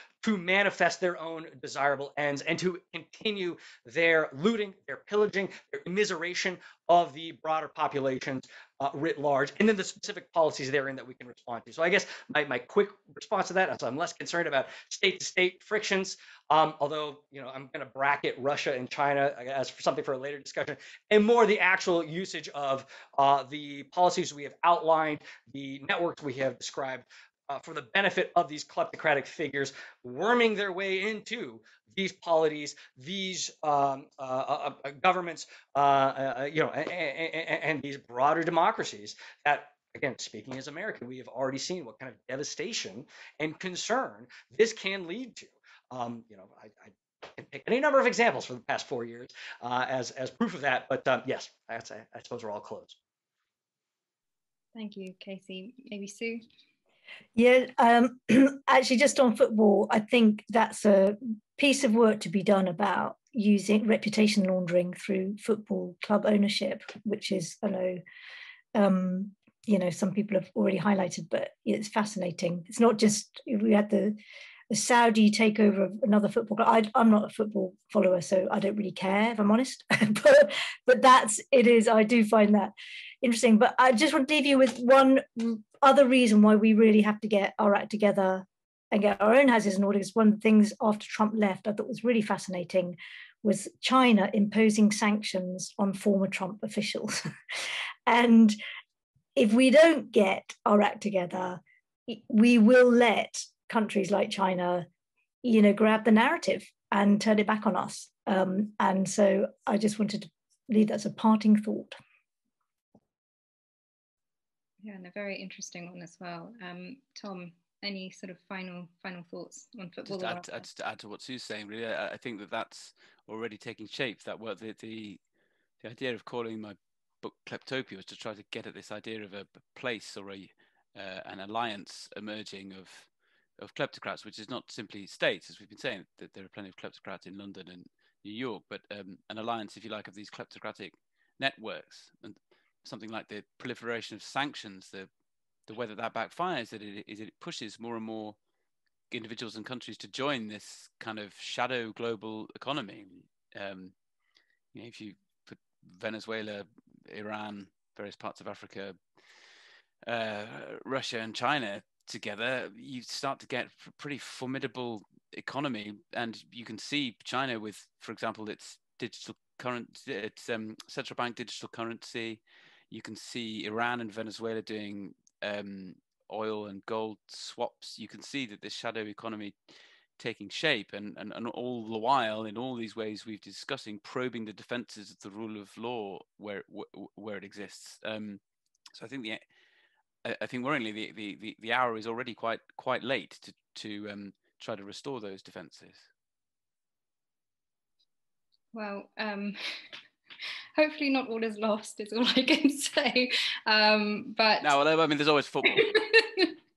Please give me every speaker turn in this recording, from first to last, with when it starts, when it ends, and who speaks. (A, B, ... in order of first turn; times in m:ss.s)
0:00.2-0:53.0 A
0:54.7-0:56.4 B
0:57.4-1:08.0 C
1:08.7-1:14.2 C
1:14.7-1:37.2 C
1:38.0-1:38.6 C
1:39.4-1:44.9 C
1:45.4-1:52.0 C
1:54.8-2:00.6 B
2:00.0-2:05.2 D
2:05.8-2:25.1 D
2:25.7-2:28.4 D
2:29.1-2:33.9 D
2:34.7-2:39.0 D
2:40.0-3:08.4 D
3:08.9-3:09.4 D
3:10.2-3:16.0 D
3:18.7-3:19.6 B
3:20.8-3:24.7 B
3:24.6-3:25.9 D
3:25.6-3:26.6 B